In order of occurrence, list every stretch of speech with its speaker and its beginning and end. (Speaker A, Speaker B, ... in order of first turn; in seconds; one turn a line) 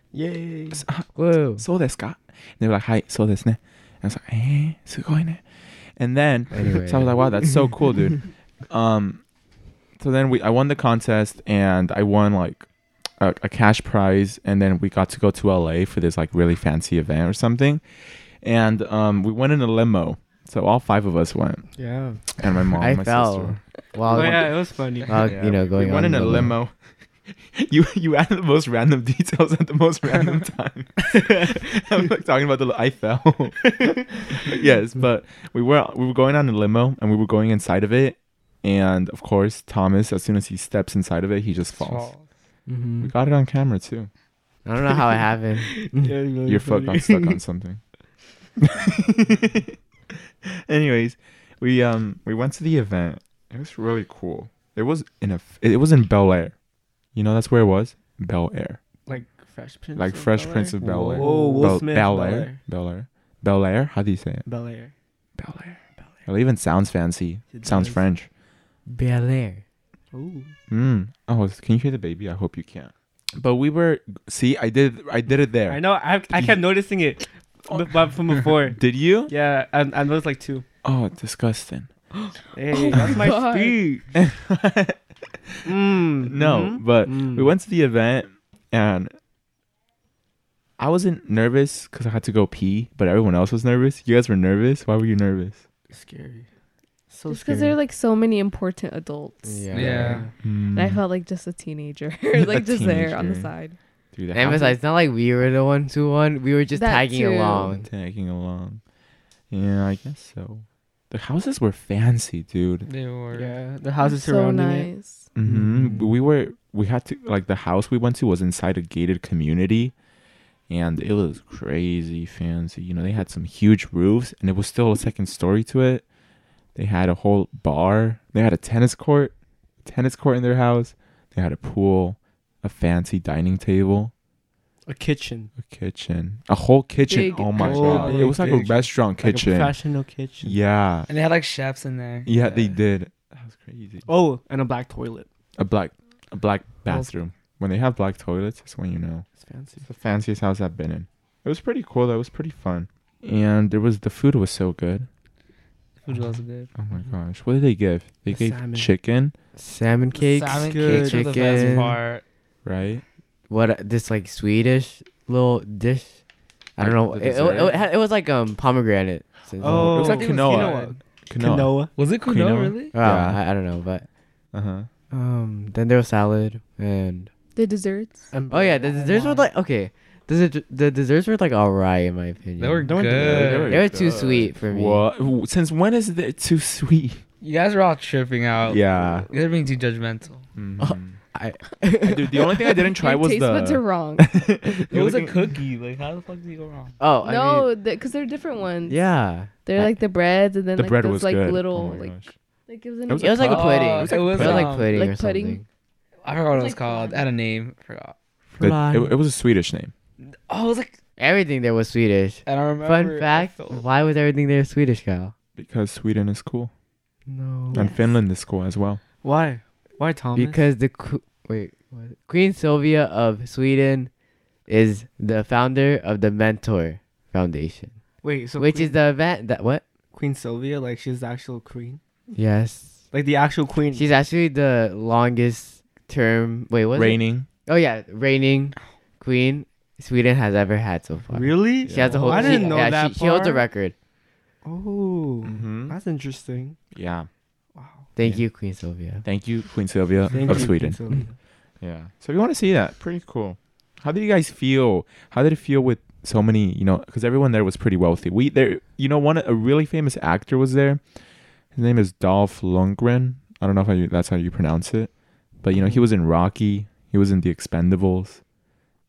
Speaker A: 0.1-0.8
Speaker B: 0.7-5.4
Speaker C: 1.1-1.6
Speaker B: 6.0-9.2
Speaker C: 6.5-7.2
Speaker B: 10.0-12.7
Speaker B: 13.2-17.8
Speaker B: 18.4-21.7
Speaker A: 21.8-22.2
Speaker B: 22.4-23.6
Speaker C: 22.8-26.6
Speaker A: 24.1-25.4
Speaker B: 25.2-26.7
Speaker B: 27.5-42.1
Speaker D: 41.7-42.2
Speaker C: 42.7-43.1
Speaker B: 43.0-44.1
Speaker C: 44.7-46.1
Speaker A: 45.6-47.4
Speaker B: 46.5-47.8
Speaker B: 48.6-49.8
Speaker B: 50.4-56.6
Speaker B: 57.1-58.8
Speaker A: 59.1-62.6
Speaker B: 60.0-64.5
Speaker D: 61.2-61.6
Speaker A: 64.5-64.9
Speaker B: 65.4-68.3
Speaker A: 67.5-68.0
Speaker C: 68.9-69.6
Speaker A: 70.1-70.5
Speaker B: 70.7-76.6
Speaker A: 75.7-80.7
Speaker B: 77.7-79.3
Speaker B: 80.8-81.9
Speaker E: 82.2-84.0
Speaker A: 82.5-84.0
Speaker B: 84.1-85.7
Speaker A: 85.7-87.5
Speaker B: 86.2-89.2
Speaker B: 90.8-95.6
Speaker A: 95.9-96.5
Speaker A: 97.1-97.8
Speaker E: 97.3-99.9
Speaker C: 99.5-100.2
Speaker D: 99.8-100.3
Speaker A: 99.8-100.3
Speaker B: 100.4-101.0
Speaker E: 100.7-103.8
Speaker B: 102.3-103.5
Speaker B: 104.1-104.8
Speaker C: 104.3-107.9
Speaker E: 106.8-107.7
Speaker B: 107.8-108.8
Speaker B: 109.5-112.9
Speaker D: 112.9-113.5
Speaker A: 113.3-114.9
Speaker E: 114.0-115.3
Speaker B: 115.3-120.0
Speaker C: 115.4-116.1
Speaker B: 120.7-126.0
Speaker B: 126.8-134.1
Speaker A: 134.9-135.5
Speaker B: 135.6-139.8
Speaker E: 137.1-138.3
Speaker A: 137.5-140.6
Speaker B: 140.4-141.1
Speaker D: 141.1-142.3
Speaker B: 142.3-144.1
Speaker A: 144.1-145.3
Speaker B: 145.6-149.3
Speaker A: 149.4-149.8
Speaker B: 149.8-155.1
Speaker D: 156.1-156.7
Speaker B: 156.8-159.3
Speaker A: 158.3-158.9
Speaker C: 159.6-162.0
Speaker D: 160.2-162.2
Speaker A: 160.5-161.8
Speaker B: 162.7-163.0
Speaker C: 163.5-166.2
Speaker C: 166.8-170.2
Speaker B: 166.8-167.8
Speaker A: 169.6-171.9
Speaker B: 169.7-173.4
Speaker D: 170.0-171.0
Speaker D: 172.0-172.9
Speaker C: 172.9-174.1
Speaker B: 174.5-174.9
Speaker C: 175.1-177.3
Speaker E: 177.6-178.3
Speaker A: 178.3-179.5
Speaker C: 178.5-185.1
Speaker D: 182.6-183.8
Speaker A: 182.8-183.7
Speaker B: 183.2-187.2
Speaker D: 187.4-190.5
Speaker B: 188.7-189.3
Speaker B: 190.6-191.2
Speaker C: 190.8-192.5
Speaker B: 192.0-195.4
Speaker E: 192.8-194.3
Speaker D: 194.9-197.0
Speaker C: 197.0-197.7
Speaker E: 197.2-199.1
Speaker C: 198.9-199.7
Speaker E: 199.7-203.7
Speaker B: 200.8-202.3
Speaker B: 203.1-204.7
Speaker C: 203.2-205.7
Speaker D: 203.4-204.9
Speaker E: 204.8-205.6
Speaker D: 206.2-208.1
Speaker E: 206.5-207.2
Speaker C: 208.5-209.1
Speaker B: 208.6-209.9
Speaker D: 210.2-211.0
Speaker C: 211.2-215.3
Speaker D: 212.5-213.8
Speaker B: 215.6-216.7
Speaker C: 217.3-217.9
Speaker B: 217.7-219.0
Speaker E: 217.8-218.0
Speaker A: 219.2-220.7
Speaker C: 220.3-224.1
Speaker C: 224.7-228.0
Speaker A: 228.2-229.0
Speaker C: 228.6-229.8
Speaker A: 230.1-232.0
Speaker C: 232.3-233.0
Speaker A: 233.1-234.1
Speaker C: 233.9-243.9
Speaker B: 236.9-237.5
Speaker A: 241.3-243.6
Speaker B: 241.8-242.7
Speaker A: 244.7-246.8
Speaker B: 245.4-246.0
Speaker B: 246.9-247.3
Speaker A: 247.8-248.1
Speaker C: 248.2-249.2
Speaker B: 249.2-251.0
Speaker A: 250.3-251.3
Speaker B: 251.8-261.0
Speaker B: 261.7-268.4